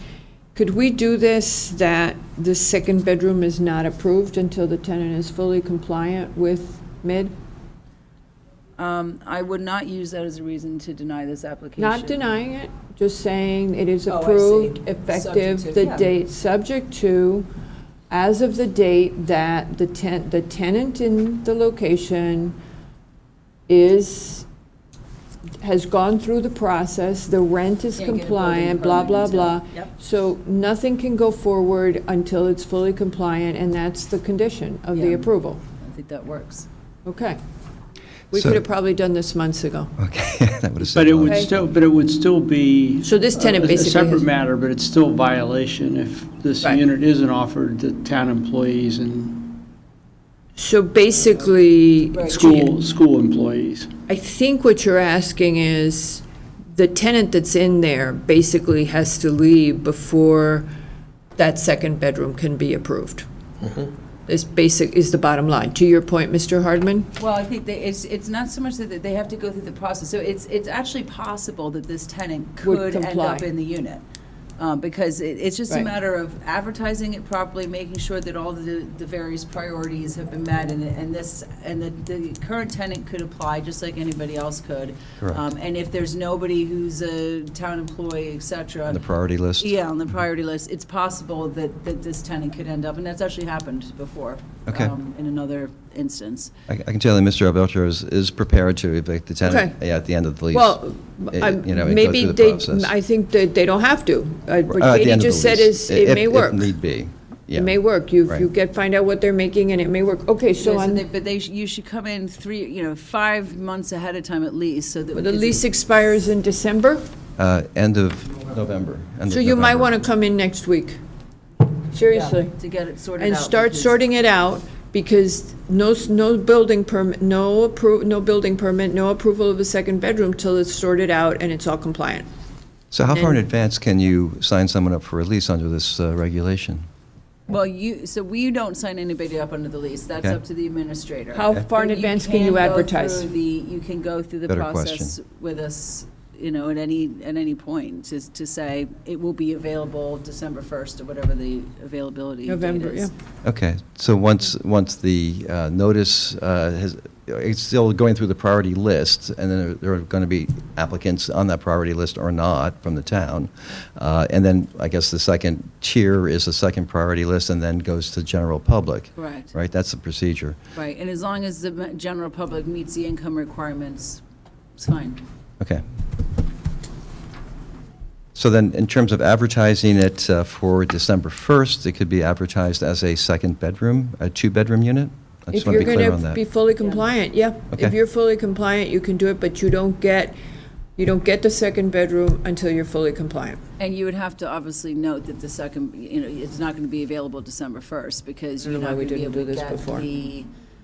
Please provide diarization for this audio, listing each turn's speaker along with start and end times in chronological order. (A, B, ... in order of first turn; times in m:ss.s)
0:00.5-0:07.3 A
0:08.8-0:12.2 B
0:11.8-0:17.5 A
0:14.1-0:16.1 B
0:18.1-0:22.5 A
0:23.7-0:24.4 A
0:25.6-0:35.6 A
0:28.0-0:29.9 B
0:34.9-0:36.7 B
0:37.0-0:37.4 A
0:38.3-0:39.9 A
0:38.3-0:38.6 C
0:40.0-0:41.6 C
0:40.9-0:49.6 D
0:43.0-0:44.2 A
0:50.6-0:52.7 A
0:52.1-0:52.4 B
0:52.3-0:53.9 D
0:54.1-1:00.7 A
1:01.4-1:03.2 A
1:04.3-1:07.1 A
1:07.2-1:14.0 B
1:12.6-1:13.4 A
1:14.6-1:36.5 B
1:25.2-1:25.4 C
1:28.9-1:29.7 C
1:34.7-1:34.9 C
1:36.7-1:40.8 C
1:39.4-1:39.8 A
1:40.5-1:46.7 A
1:41.3-1:42.9 C
1:44.7-1:47.8 C
1:47.5-1:51.0 A
1:50.6-1:55.6 B
1:55.1-1:57.0 A
1:57.4-1:59.9 C
1:59.3-2:01.0 A
2:01.9-2:02.5 A
2:02.1-2:04.0 B
2:03.2-2:12.2 A
2:12.9-2:16.8 C
2:17.5-2:33.1 B
2:21.3-2:23.3 A
2:24.5-2:25.1 C
2:32.4-2:33.1 A
2:33.4-2:50.6 C
2:49.2-2:49.5 B
2:50.7-2:54.2 B
2:54.8-2:55.2 B
2:58.3-3:06.4 C
3:05.5-3:10.4 A
3:06.8-3:07.1 B
3:11.0-3:13.6 A
3:13.8-3:20.5 B
3:18.6-3:20.1 A